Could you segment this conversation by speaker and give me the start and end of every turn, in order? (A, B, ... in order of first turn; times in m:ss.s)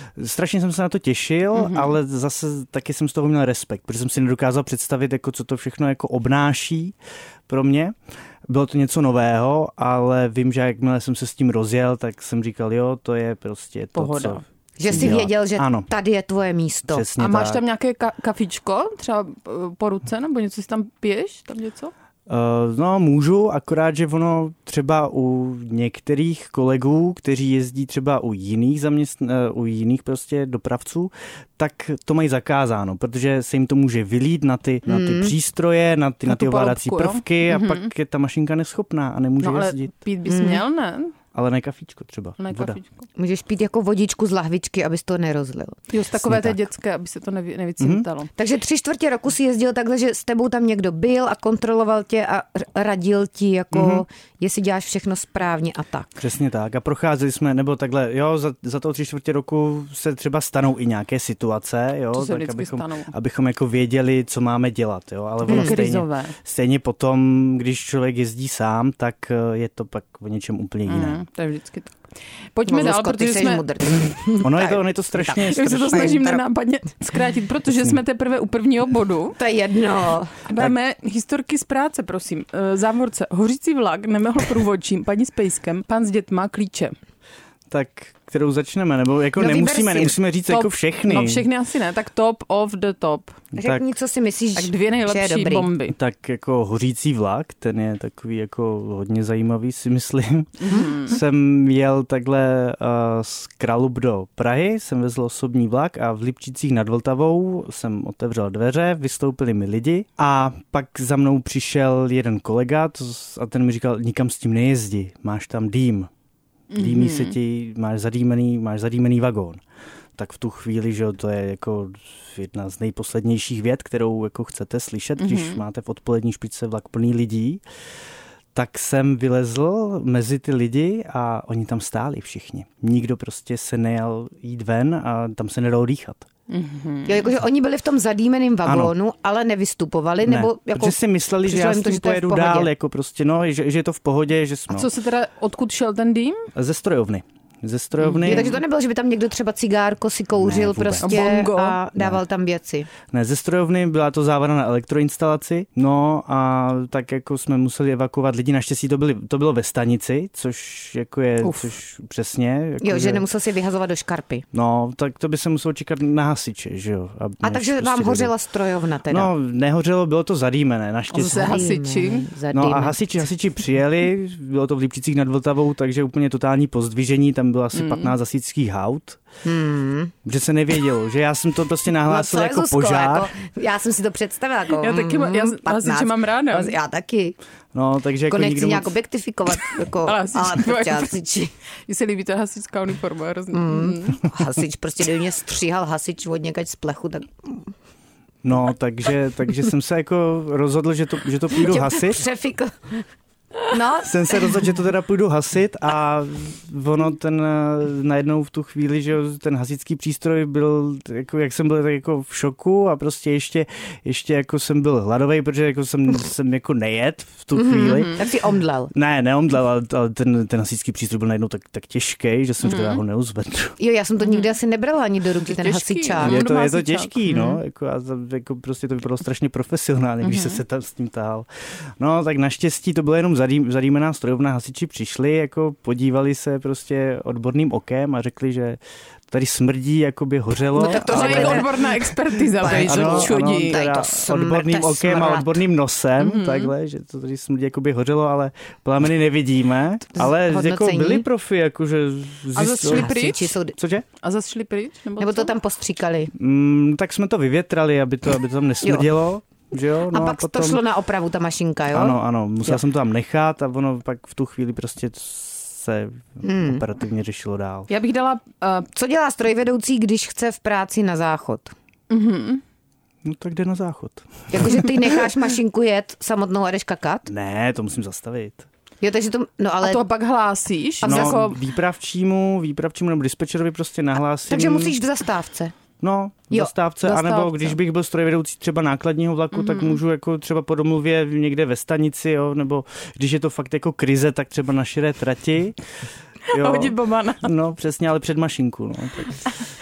0:00.2-0:07.0 A
0:01.5-0:01.9 B
0:07.5-0:07.9 A
0:08.5-0:15.9 A
0:14.0-0:14.4 B
0:14.8-0:17.0 C
0:16.9-0:17.6 A
0:17.2-0:21.9 B
0:22.3-0:39.9 A
0:34.8-0:35.3 C
0:36.2-0:37.9 B
0:39.4-0:41.1 B
0:40.3-0:40.6 C
0:41.3-0:42.8 A
0:42.4-0:43.1 B
0:43.2-0:45.8 C
0:45.9-0:48.3 B
0:46.1-0:46.6 A
0:47.8-0:48.0 A
0:48.4-0:56.1 C
0:53.7-0:54.0 A
0:56.2-1:11.2 A
1:02.1-1:03.1 B
1:05.4-1:06.3 B
1:05.5-1:05.7 C
1:10.9-1:12.0 B
1:12.5-1:13.6 B
1:12.7-1:16.4 C
1:14.4-1:16.3 A
1:15.3-1:19.4 B
1:19.4-1:20.4 C
1:20.4-1:26.9 B
1:27.7-1:31.5 A
1:29.4-1:30.2 C
1:30.5-1:33.4 B
1:33.5-1:33.8 A
1:33.5-1:35.7 C
1:34.6-1:36.0 B
1:35.9-1:56.1 A
1:40.6-1:41.2 B
1:56.7-1:57.4 B
1:56.7-1:59.6 A
2:00.2-2:07.6 A
2:05.2-2:05.6 B
2:08.5-2:16.3 A
2:16.5-2:17.3 B
2:17.0-2:22.7 C
2:18.6-2:18.9 A
2:20.2-2:24.9 A
2:24.7-2:26.5 B
2:26.5-2:28.5 A
2:28.0-2:28.5 B
2:28.2-2:32.9 C
2:30.4-2:31.2 A
2:31.0-2:31.8 B
2:33.1-2:43.2 A
2:41.4-2:41.7 B
2:42.8-2:44.4 C
2:44.5-2:48.3 A
2:47.4-2:49.3 C
2:49.1-2:51.7 A
2:51.1-2:52.3 B
2:51.2-2:53.2 C
2:52.5-2:59.2 A
2:57.7-2:58.1 B
2:59.4-3:00.1 C
3:00.2-3:03.3 A
3:02.0-3:07.4 C
3:04.8-3:06.8 B
3:07.7-3:08.9 A
3:08.3-3:11.5 C
3:10.0-3:11.1 B
3:11.9-3:14.2 B
3:13.5-3:17.7 C
3:18.4-3:22.2 A
3:21.5-3:23.0 C
3:23.7-3:24.5 C
3:24.0-3:38.2 A
3:37.5-3:38.9 C
3:38.9-3:43.8 A
3:42.6-3:43.0 B
3:43.8-3:46.4 C
3:44.2-3:44.5 B
3:45.4-3:47.3 B
3:46.2-3:51.5 A
3:47.3-3:47.6 C
3:50.2-3:50.6 B
3:52.0-4:01.7 A
4:00.7-4:01.8 C
4:00.8-4:03.8 B
4:02.6-4:05.6 C
4:02.6-4:13.2 A
4:06.2-4:06.7 B
4:10.1-4:11.2 C
4:12.5-4:13.5 B
4:12.8-4:13.8 C
4:13.8-4:14.1 A
4:14.2-4:15.5 B
4:15.2-4:16.3 C
4:16.3-4:20.8 A
4:20.1-4:22.8 C
4:21.9-4:27.9 A
4:26.4-4:26.8 C
4:27.9-4:28.8 B
4:28.9-4:31.7 C
4:32.1-4:32.6 B
4:33.2-4:35.1 A
4:34.5-4:37.3 C
4:37.3-4:38.7 A
4:39.0-4:40.0 C
4:39.8-4:41.6 B
4:41.0-4:41.4 C
4:41.0-4:45.0 A
4:44.5-4:45.7 C
4:46.0-4:55.8 A
4:47.0-4:47.8 B
4:49.5-4:50.0 B
4:56.5-4:57.5 B
4:56.5-4:59.4 A